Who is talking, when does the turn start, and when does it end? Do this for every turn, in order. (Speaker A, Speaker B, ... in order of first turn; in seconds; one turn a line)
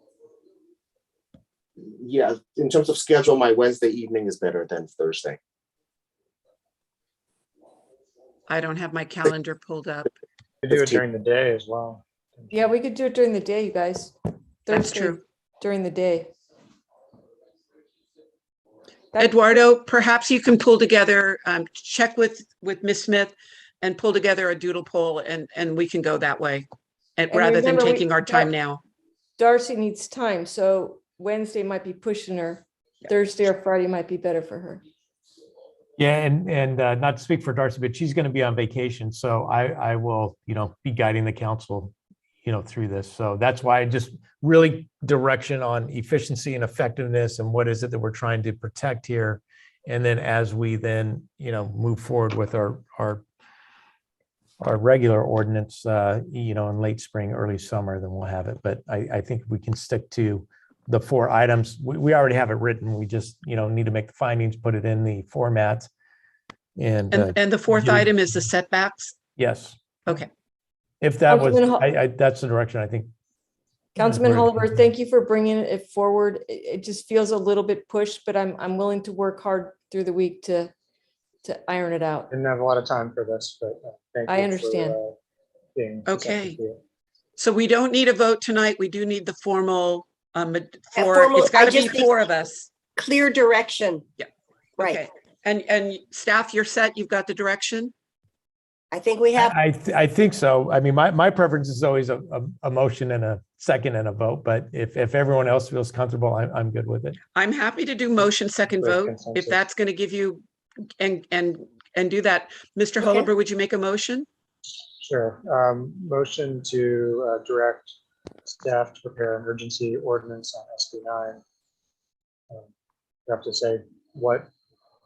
Speaker A: 2.0-5.4
Speaker B: 8.5-10.1
Speaker C: 10.6-12.7
Speaker D: 12.5-14.1
Speaker D: 14.7-16.3
Speaker B: 14.7-15.2
Speaker D: 19.1-19.6
Speaker B: 19.2-28.8
Speaker D: 27.3-28.5
Speaker D: 29.4-34.8
Speaker E: 36.0-53.2
Speaker E: 54.6-65.9
Speaker E: 66.8-68.2
Speaker B: 67.1-69.2
Speaker E: 69.4-69.8
Speaker E: 71.0-73.1
Speaker D: 71.3-71.8
Speaker D: 74.0-80.7
Speaker E: 74.0-74.9
Speaker D: 81.4-82.3
Speaker C: 82.3-85.2
Speaker D: 84.3-85.0
Speaker C: 85.7-86.8
Speaker B: 86.0-86.6
Speaker B: 87.4-92.7
Speaker F: 90.9-92.2
Speaker F: 93.0-94.0
Speaker F: 94.8-95.0
Speaker B: 94.8-97.9
Speaker F: 98.9-99.5
Speaker E: 99.3-107.2
Speaker B: 107.3-110.4
Speaker C: 108.7-109.6
Speaker B: 111.0-114.2
Speaker F: 113.0-113.3
Speaker C: 115.0-121.4
Speaker C: 123.3-124.5